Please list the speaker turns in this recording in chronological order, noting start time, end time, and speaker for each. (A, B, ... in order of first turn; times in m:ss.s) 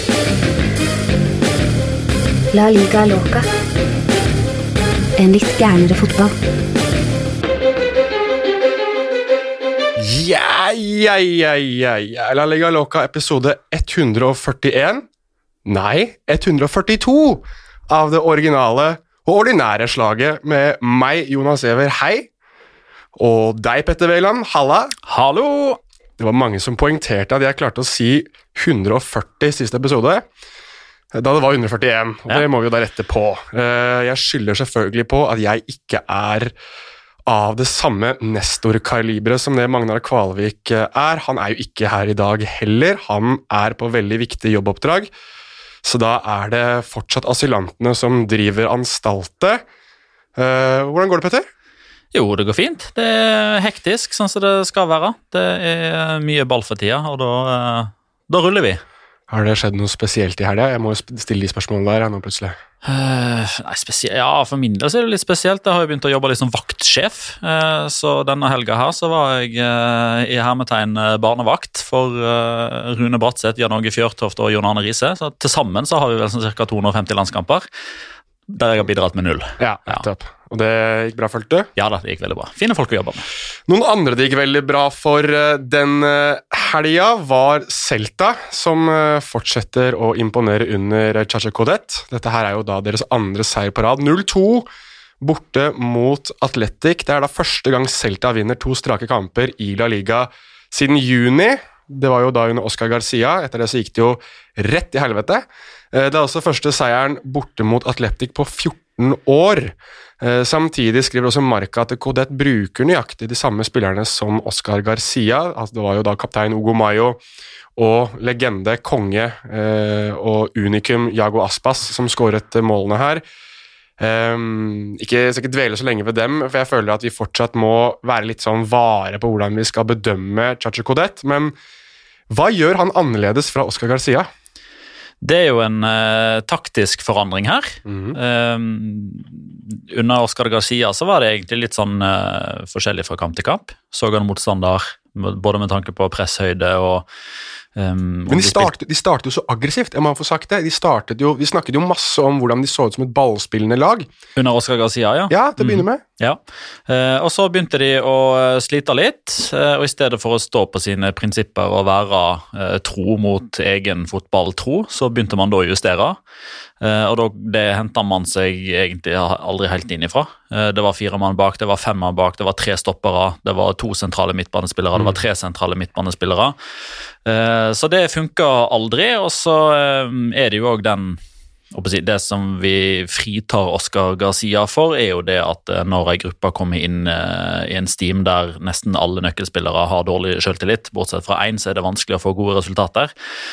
0:02.5-0:03.5 A
0:05.2-0:06.3 A
0:10.0-0:15.1 B
0:15.7-0:22.3 B
0:23.2-0:25.0 B
0:25.1-0:25.8 C
0:26.2-0:30.3 B
0:31.1-0:36.5 B
0:37.3-0:45.1 B
0:45.8-0:49.6 B
0:50.4-0:51.5 B
0:52.1-0:58.8 C
0:59.3-1:02.6 B
1:02.8-1:17.7 C
1:18.5-1:20.0 C
1:19.6-1:21.7 B
1:21.8-1:23.3 C
1:23.7-1:34.7 B
1:35.2-1:57.2 B
1:57.8-2:03.2 B
2:04.0-2:11.6 B
2:12.3-2:14.3 B
2:15.2-2:27.1 C
2:17.9-2:18.2 B
2:27.8-2:28.7 C
2:28.3-2:34.1 B
2:34.4-2:46.2 C
2:35.3-2:36.0 B
2:46.8-2:56.6 C
2:57.2-3:01.2 C
3:01.7-3:13.1 C